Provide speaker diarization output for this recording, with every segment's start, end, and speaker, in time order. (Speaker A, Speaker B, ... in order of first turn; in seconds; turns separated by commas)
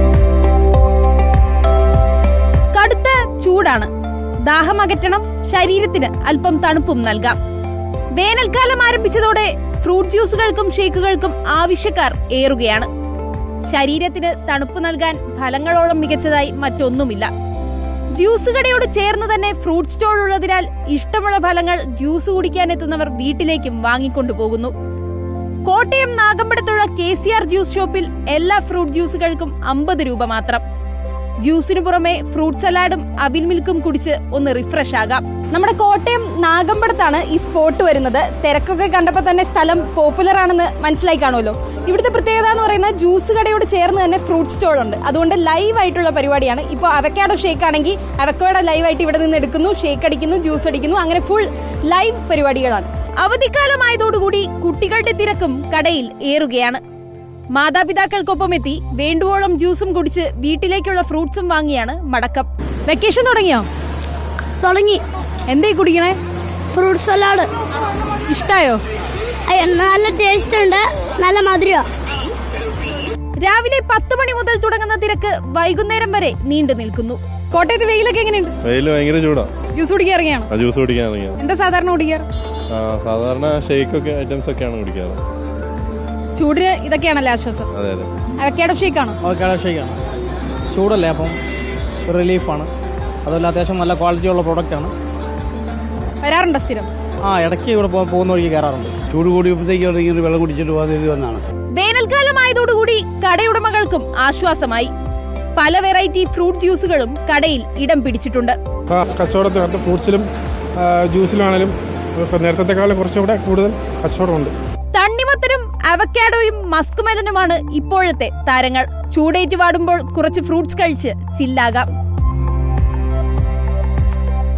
Speaker A: 2.7-3.9, Speaker A: 4.5-7.3, Speaker A: 8.2-12.9, Speaker A: 13.7-17.3, Speaker A: 18.2-24.7, Speaker A: 25.7-30.6, Speaker A: 31.4-56.8, Speaker A: 57.5-63.7, Speaker B: 64.6-65.0, Speaker A: 65.5-66.2, Speaker B: 66.7-67.5, Speaker A: 68.3-68.8, Speaker B: 69.5-71.9, Speaker A: 73.4-78.5, Speaker C: 78.7-79.5, Speaker A: 79.7-80.5, Speaker C: 80.5-81.4, Speaker A: 81.4-82.3, Speaker C: 82.7-85.2, Speaker A: 86.3-87.7, Speaker C: 87.8-88.1, Speaker A: 88.4-89.2, Speaker D: 89.2-90.0, Speaker D: 90.7-91.4, Speaker D: 92.1-92.7, Speaker D: 93.2-94.9, Speaker A: 96.2-96.9, Speaker D: 97.3-99.0, Speaker E: 99.1-101.4, Speaker A: 101.8-104.9, Speaker A: 105.6-108.6, Speaker F: 108.9-110.3, Speaker F: 110.8-114.5, Speaker A: 114.9-121.9